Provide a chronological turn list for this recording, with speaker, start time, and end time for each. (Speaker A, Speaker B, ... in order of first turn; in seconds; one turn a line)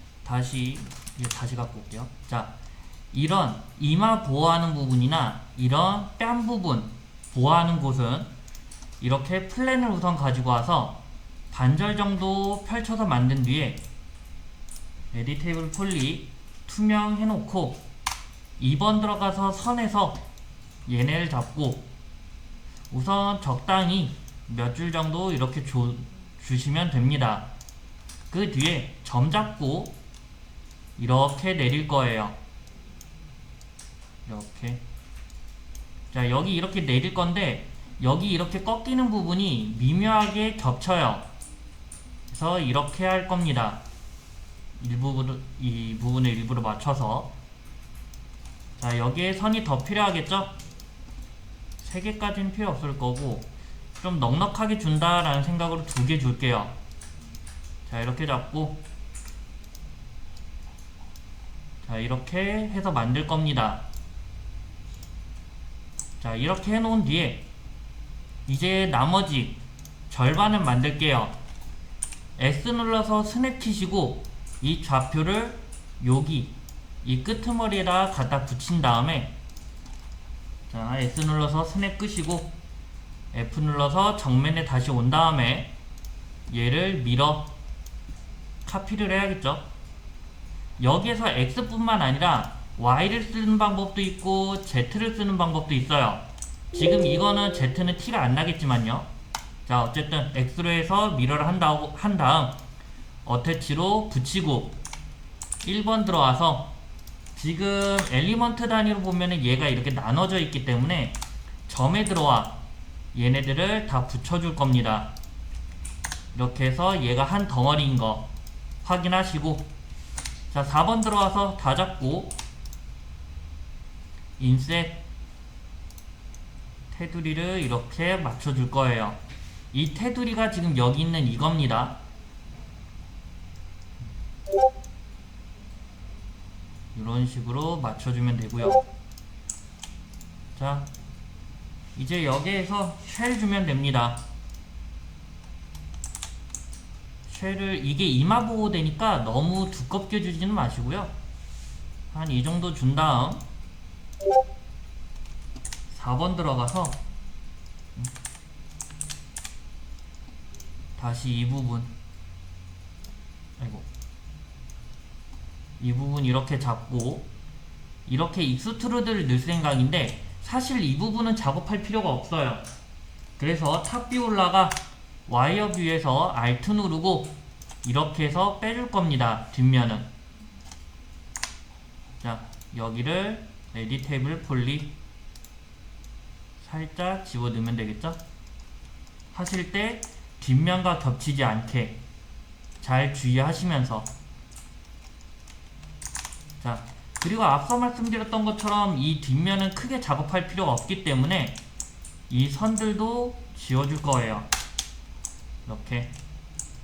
Speaker A: 0.2-2.5
Speaker A: 3.1-8.3
Speaker A: 9.0-13.8
Speaker A: 15.1-17.8
Speaker A: 18.6-20.2
Speaker A: 20.9-21.9
Speaker A: 22.9-27.5
Speaker A: 28.3-30.0
Speaker A: 31.0-32.4
Speaker A: 34.2-34.8
Speaker A: 36.1-41.3
Speaker A: 42.3-43.8
Speaker A: 44.8-47.4
Speaker A: 48.8-50.6
Speaker A: 51.8-56.8
Speaker A: 57.9-58.8
Speaker A: 61.8-63.9
Speaker A: 66.2-67.5
Speaker A: 68.5-71.3
Speaker A: 72.4-79.3
Speaker A: 80.7-82.6
Speaker A: 83.3-85.7
Speaker A: 86.5-87.5
Speaker A: 88.6-89.7
Speaker A: 90.8-99.1
Speaker A: 99.7-102.6
Speaker A: 103.2-104.8
Speaker A: 105.6-106.8
Speaker A: 107.3-115.1
Speaker A: 116.3-118.3
Speaker A: 118.8-119.7
Speaker A: 120.5-122.4
Speaker A: 124.4-125.0
Speaker A: 126.9-129.2
Speaker A: 129.7-132.0
Speaker A: 136.9-138.8
Speaker A: 140.6-140.9
Speaker A: 141.9-144.2
Speaker A: 147.3-151.1
Speaker A: 152.1-153.5
Speaker A: 155.9-157.0
Speaker A: 161.0-161.9
Speaker A: 163.6-163.9
Speaker A: 165.8-167.3
Speaker A: 168.1-172.7
Speaker A: 173.4-180.1
Speaker A: 182.2-184.9
Speaker A: 186.6-188.2
Speaker A: 189.3-192.0
Speaker A: 192.8-194.1
Speaker A: 196.6-201.6
Speaker A: 202.3-204.5
Speaker A: 205.7-206.1